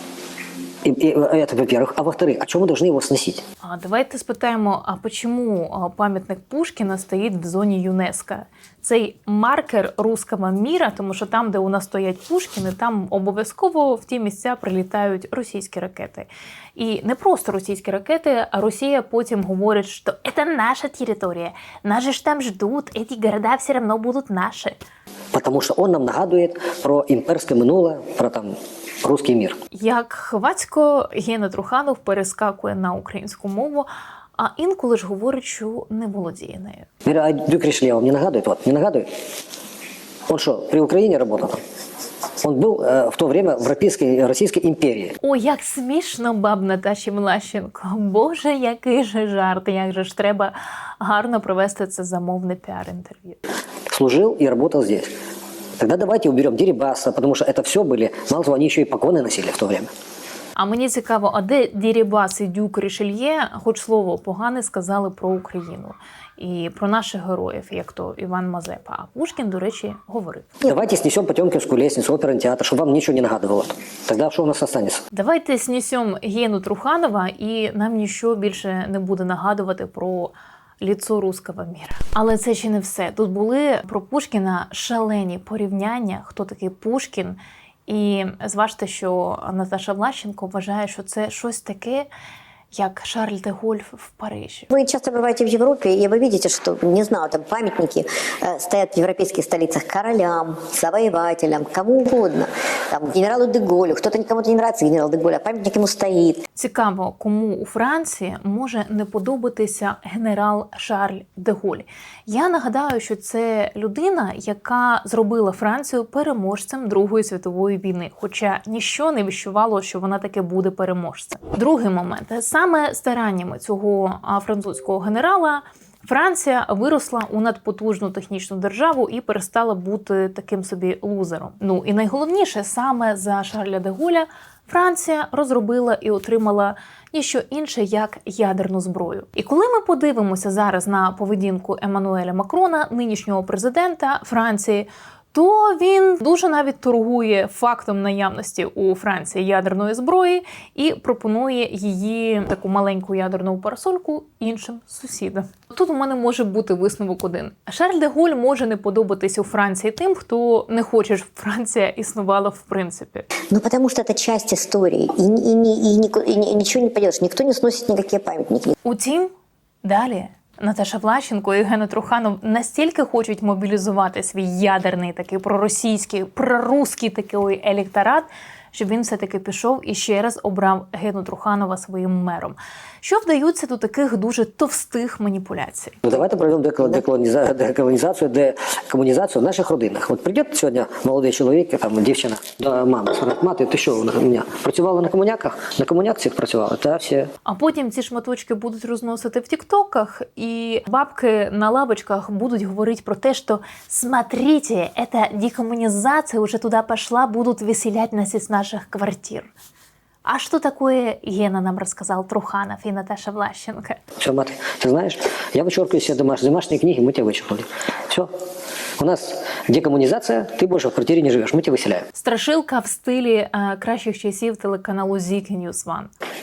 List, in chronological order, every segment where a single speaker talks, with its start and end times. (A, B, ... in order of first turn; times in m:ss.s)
0:00.8-0:03.4 A
0:03.6-0:24.8 B
0:25.3-0:29.6 A
0:29.7-0:36.8 B
0:37.0-0:39.1 A
0:40.3-0:41.6 A
0:42.4-0:45.2 A
0:45.2-0:53.4 B
0:53.9-0:55.1 A
0:55.8-0:59.9 A
1:00.6-1:10.5 B
1:10.6-1:15.0 A
1:15.1-1:32.1 B
1:32.7-1:34.7 B
1:34.7-1:46.4 C
1:46.6-2:43.3 B
2:43.5-2:48.7 C
2:48.8-2:49.3 B
2:49.8-3:06.0 B
3:06.0-3:17.3 A
3:17.4-3:29.5 B
3:30.2-3:34.0 B
3:34.2-3:38.3 A
3:39.0-3:42.0 A
3:42.1-3:46.1 B